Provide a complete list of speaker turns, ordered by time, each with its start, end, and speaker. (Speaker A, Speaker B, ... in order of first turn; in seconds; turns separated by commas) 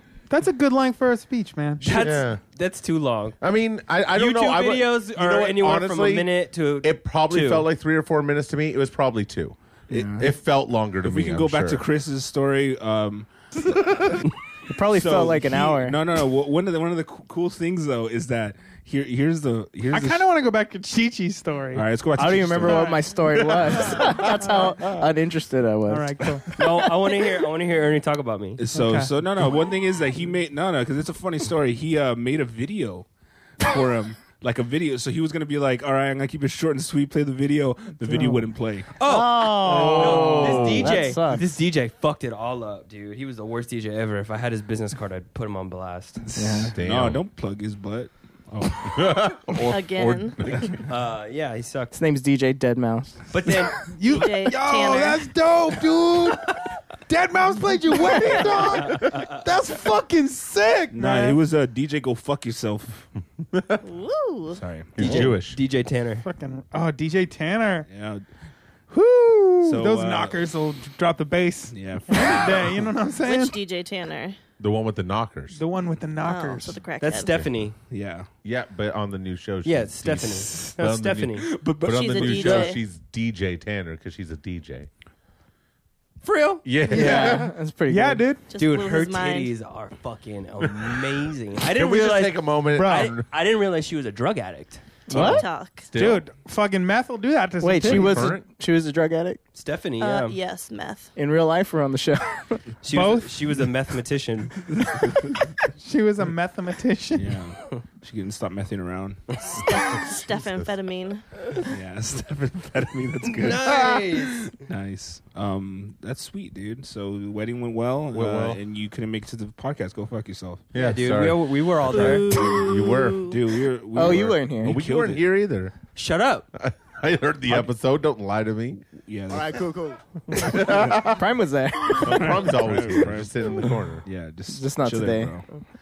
Speaker A: 0.3-2.0, Speaker B: 1.8-2.4, Speaker C: 1.8-3.4, Speaker B: 3.4-9.6, Speaker C: 4.1-7.7, Speaker D: 9.9-10.3, Speaker E: 9.9-10.3, Speaker B: 10.2-11.8, Speaker D: 11.0-13.3, Speaker D: 13.8-14.2, Speaker E: 14.7-16.0, Speaker D: 14.9-20.2, Speaker A: 19.9-21.9, Speaker D: 21.7-23.1, Speaker E: 22.2-26.9, Speaker A: 22.6-23.0, Speaker D: 23.9-24.1, Speaker A: 25.9-26.5, Speaker C: 26.6-28.6, Speaker D: 28.6-33.1, Speaker A: 28.7-29.1, Speaker D: 33.6-38.9, Speaker E: 38.1-38.5, Speaker C: 39.0-46.2, Speaker E: 39.0-41.5, Speaker B: 39.7-40.9, Speaker D: 46.3-49.2, Speaker E: 46.4-46.7, Speaker B: 46.8-47.2, Speaker B: 48.8-50.9, Speaker F: 49.7-50.4, Speaker C: 50.9-52.0, Speaker E: 51.9-53.2, Speaker C: 53.3-53.9, Speaker A: 53.9-61.4, Speaker F: 54.1-55.2, Speaker C: 58.8-59.4, Speaker D: 60.9-63.1, Speaker B: 63.5-63.8, Speaker F: 63.8-64.6, Speaker D: 64.5-65.3, Speaker B: 65.0-65.6, Speaker C: 65.0-66.2, Speaker A: 66.2-67.9, Speaker D: 67.9-68.2, Speaker A: 68.9-73.6, Speaker D: 69.6-70.4, Speaker D: 71.7-72.9, Speaker F: 73.2-74.4, Speaker B: 74.6-75.6, Speaker A: 75.5-76.8, Speaker F: 76.2-77.3, Speaker C: 77.0-77.8, Speaker B: 77.3-77.7, Speaker D: 77.9-78.3, Speaker B: 78.4-84.9, Speaker C: 79.6-81.5, Speaker D: 81.5-82.8, Speaker F: 81.9-82.8, Speaker C: 86.2-86.6, Speaker B: 86.7-87.5, Speaker E: 86.8-88.2, Speaker A: 86.9-88.5, Speaker F: 88.5-89.5, Speaker C: 88.6-95.0, Speaker B: 90.7-91.0, Speaker B: 91.6-93.3, Speaker A: 92.8-93.2, Speaker E: 95.1-95.5, Speaker B: 95.1-96.3, Speaker F: 95.1-95.9, Speaker A: 95.9-98.3, Speaker E: 97.6-99.4, Speaker B: 97.8-98.5, Speaker C: 99.5-100.4, Speaker F: 100.0-101.1, Speaker E: 101.2-102.6, Speaker C: 102.8-104.7, Speaker A: 102.9-103.5, Speaker D: 104.8-105.3, Speaker A: 105.8-107.4, Speaker D: 107.1-109.2, Speaker F: 109.4-111.2, Speaker B: 109.9-110.7, Speaker D: 111.7-120.7, Speaker C: 113.4-114.5, Speaker B: 118.1-118.6, Speaker B: 120.7-123.3, Speaker C: 120.8-122.4, Speaker E: 122.0-122.7, Speaker F: 122.2-123.3, Speaker D: 123.2-125.2, Speaker E: 123.9-124.8, Speaker B: 124.0-125.8, Speaker C: 126.0-126.5, Speaker B: 126.5-128.8, Speaker D: 128.9-129.6, Speaker E: 129.3-132.5, Speaker B: 130.3-131.2, Speaker B: 131.9-134.0, Speaker D: 132.0-135.5, Speaker E: 134.5-135.4